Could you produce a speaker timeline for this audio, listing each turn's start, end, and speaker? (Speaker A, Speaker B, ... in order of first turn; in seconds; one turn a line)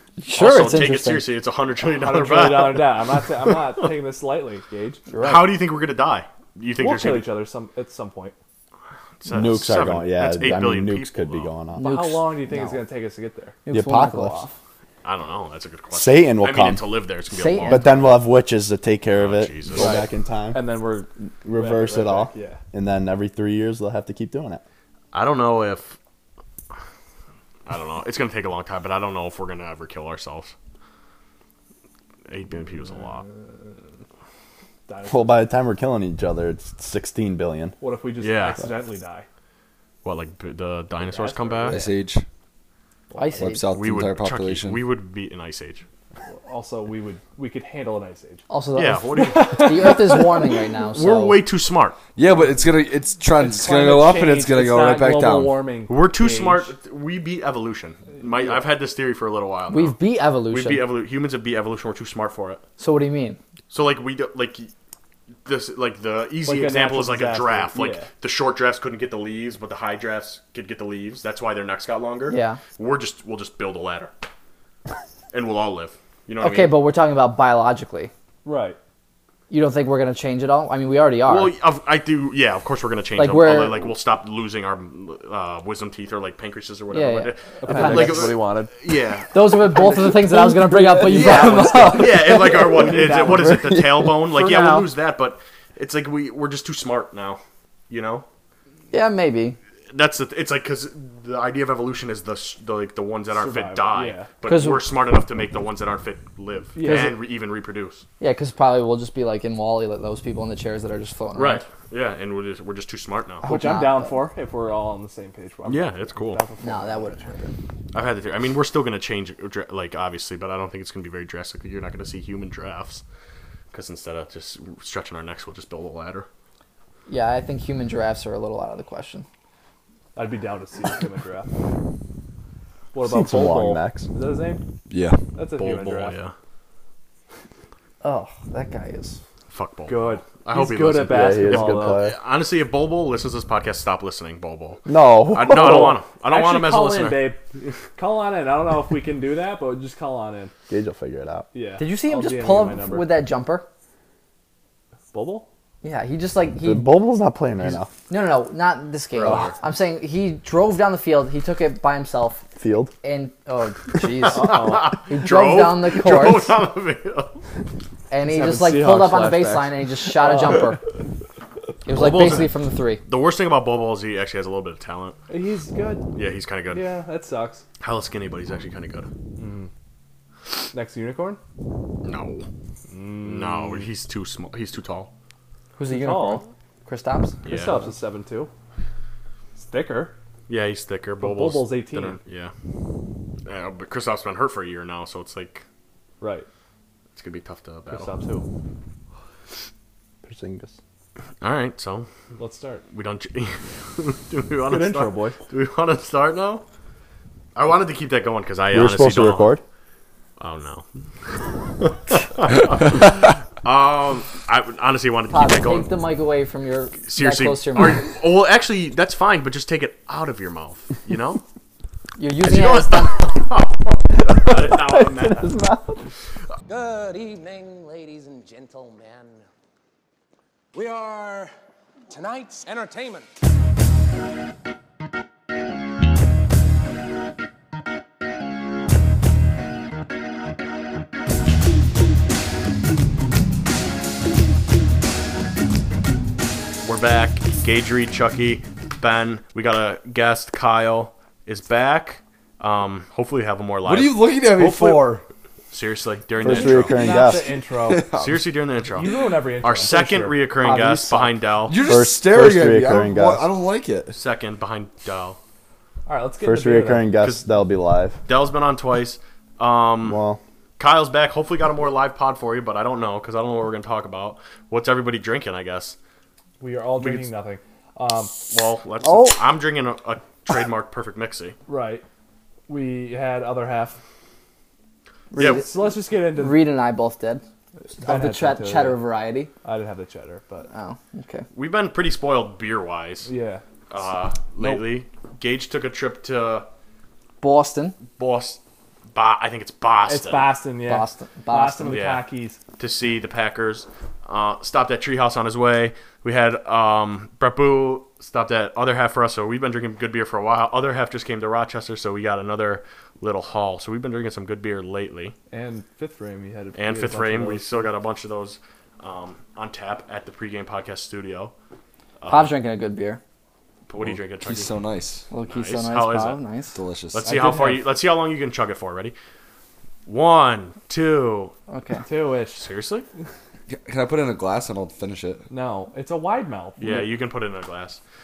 Speaker A: 0.2-1.3
Speaker B: 0.4-3.9
Speaker C: 1.8-5.0
Speaker A: 5.1-5.6
Speaker B: 5.2-7.3
Speaker C: 6.8-8.3
Speaker B: 9.2-11.5
Speaker D: 9.3-12.0
Speaker A: 11.7-12.8
Speaker C: 11.8-13.6
Speaker A: 13.7-14.6
Speaker D: 13.7-14.5
Speaker B: 15.0-18.2
Speaker D: 15.9-16.9
Speaker A: 17.3-18.0
Speaker D: 17.7-20.6
Speaker B: 19.1-20.0
Speaker C: 19.8-22.6
Speaker D: 21.4-24.6
Speaker B: 25.1-26.0
Speaker B: 27.7-30.5
Speaker B: 32.3-33.2
Speaker C: 34.9-35.4
Speaker D: 35.1-37.8
Speaker C: 37.8-39.3
Speaker B: 38.2-38.6
Speaker B: 40.0-41.8
Speaker C: 41.0-41.9
Speaker E: 41.7-42.2
Speaker C: 43.1-43.4
Speaker A: 43.2-43.6
Speaker E: 43.4-44.8
Speaker B: 43.7-45.8
Speaker C: 46.5-48.4
Speaker A: 48.5-51.4
Speaker B: 48.8-50.0
Speaker C: 49.2-50.5
Speaker B: 50.9-52.0
Speaker E: 52.2-55.5
Speaker C: 53.4-56.7
Speaker B: 55.9-60.0
Speaker C: 58.1-58.6
Speaker A: 59.7-60.9
Speaker B: 60.5-62.6
Speaker A: 62.8-63.4
Speaker B: 63.7-64.7
Speaker B: 65.5-74.1
Speaker C: 66.5-68.1
Speaker A: 72.3-72.6
Speaker B: 75.3-76.8
Speaker A: 76.4-78.1
Speaker C: 78.4-78.8
Speaker A: 79.5-81.5
Speaker B: 81.3-89.7
Speaker A: 83.2-83.9
Speaker A: 86.9-88.4
Speaker C: 87.6-88.7
Speaker A: 89.3-92.5
Speaker D: 90.3-91.3
Speaker C: 91.0-92.0
Speaker E: 91.1-92.0
Speaker B: 91.9-98.2
Speaker C: 92.7-93.8
Speaker D: 93.2-94.2
Speaker C: 94.3-94.9
Speaker A: 98.9-99.6
Speaker B: 99.9-108.0
Speaker C: 103.3-104.3
Speaker A: 104.4-104.9
Speaker C: 106.8-107.2
Speaker A: 106.8-107.2
Speaker A: 108.2-111.7
Speaker B: 111.3-113.5
Speaker A: 113.4-114.2
Speaker C: 113.4-117.4
Speaker B: 115.7-116.4
Speaker A: 116.6-117.5
Speaker B: 117.9-123.0
Speaker B: 123.7-126.3
Speaker A: 127.1-129.2
Speaker C: 130.2-131.5
Speaker C: 132.9-134.6
Speaker D: 133.0-134.1
Speaker E: 134.9-135.2
Speaker C: 135.3-136.2
Speaker B: 135.6-136.3
Speaker A: 138.0-139.2
Speaker B: 139.5-147.3
Speaker C: 139.9-142.1
Speaker D: 141.0-142.2
Speaker D: 144.9-146.0
Speaker C: 145.5-147.4
Speaker C: 147.9-150.5
Speaker D: 150.7-151.5
Speaker C: 151.5-153.2
Speaker A: 151.8-153.7
Speaker C: 155.1-155.5
Speaker A: 155.8-156.9
Speaker D: 156.6-157.9
Speaker A: 158.1-162.5
Speaker C: 159.2-159.5
Speaker D: 159.2-159.5
Speaker D: 162.6-162.9
Speaker A: 163.0-166.6
Speaker B: 164.2-167.4
Speaker C: 164.3-165.0
Speaker A: 168.1-170.8
Speaker C: 168.2-170.8
Speaker A: 171.8-173.0
Speaker B: 171.9-172.5
Speaker B: 173.1-175.2
Speaker C: 175.3-176.1
Speaker B: 176.1-176.9
Speaker C: 176.7-177.6
Speaker B: 177.8-179.1
Speaker C: 179.4-179.7
Speaker C: 180.7-181.4
Speaker B: 182.0-182.5
Speaker C: 182.9-183.9
Speaker B: 183.2-185.1
Speaker A: 185.8-187.9
Speaker C: 185.9-186.4
Speaker B: 187.5-187.8
Speaker C: 187.5-188.5
Speaker C: 189.6-190.1
Speaker B: 190.5-192.5
Speaker C: 191.2-192.2
Speaker B: 193.4-195.6
Speaker C: 196.2-196.5
Speaker B: 197.2-198.2
Speaker C: 197.9-198.4
Speaker D: 200.2-200.8
Speaker B: 201.4-202.1
Speaker C: 202.4-202.8
Speaker B: 202.9-206.7
Speaker C: 204.7-205.4
Speaker B: 207.6-209.5
Speaker D: 208.7-209.6
Speaker B: 210.4-210.9
Speaker B: 211.8-215.9
Speaker A: 215.3-218.1
Speaker B: 217.0-221.4
Speaker A: 222.2-223.3
Speaker B: 222.4-225.6
Speaker D: 224.1-226.1
Speaker F: 226.7-229.4
Speaker F: 230.7-231.5
Speaker F: 232.1-233.3
Speaker B: 246.8-255.2
Speaker E: 253.8-255.2
Speaker B: 255.7-257.1
Speaker D: 256.4-257.5
Speaker C: 256.5-258.1
Speaker E: 257.8-258.5
Speaker B: 258.1-261.8
Speaker C: 259.0-260.4
Speaker D: 260.6-263.5
Speaker E: 261.7-264.1
Speaker B: 264.1-265.4
Speaker C: 266.1-267.1
Speaker D: 266.4-268.2
Speaker B: 268.3-270.2
Speaker D: 270.1-270.4
Speaker B: 270.8-276.0
Speaker C: 276.6-278.4
Speaker B: 277.0-277.3
Speaker B: 278.5-281.6
Speaker A: 279.0-279.4
Speaker C: 281.7-282.0
Speaker C: 282.7-284.0
Speaker A: 285.3-287.4
Speaker B: 285.4-285.6
Speaker C: 285.4-286.7
Speaker C: 287.9-289.0
Speaker A: 288.0-289.5
Speaker C: 289.6-290.7
Speaker A: 290.7-291.5
Speaker B: 291.5-293.3
Speaker C: 293.3-293.6
Speaker B: 293.9-296.7
Speaker C: 294.6-294.9
Speaker A: 297.4-298.0
Speaker B: 298.2-300.5
Speaker C: 300.1-302.6
Speaker A: 300.9-302.0
Speaker B: 301.9-302.2
Speaker B: 302.8-315.3
Speaker C: 315.5-317.9
Speaker B: 316.7-321.5
Speaker B: 322.2-322.6
Speaker A: 322.3-323.2
Speaker B: 323.9-324.8
Speaker E: 324.0-325.3
Speaker A: 325.3-326.8
Speaker B: 325.4-326.4
Speaker E: 326.7-327.4
Speaker B: 327.1-329.2
Speaker C: 327.2-327.9
Speaker B: 330.1-331.5
Speaker A: 331.7-332.0
Speaker C: 332.1-332.7
Speaker B: 332.6-333.1
Speaker E: 333.7-335.4
Speaker C: 335.5-337.1
Speaker B: 336.8-338.0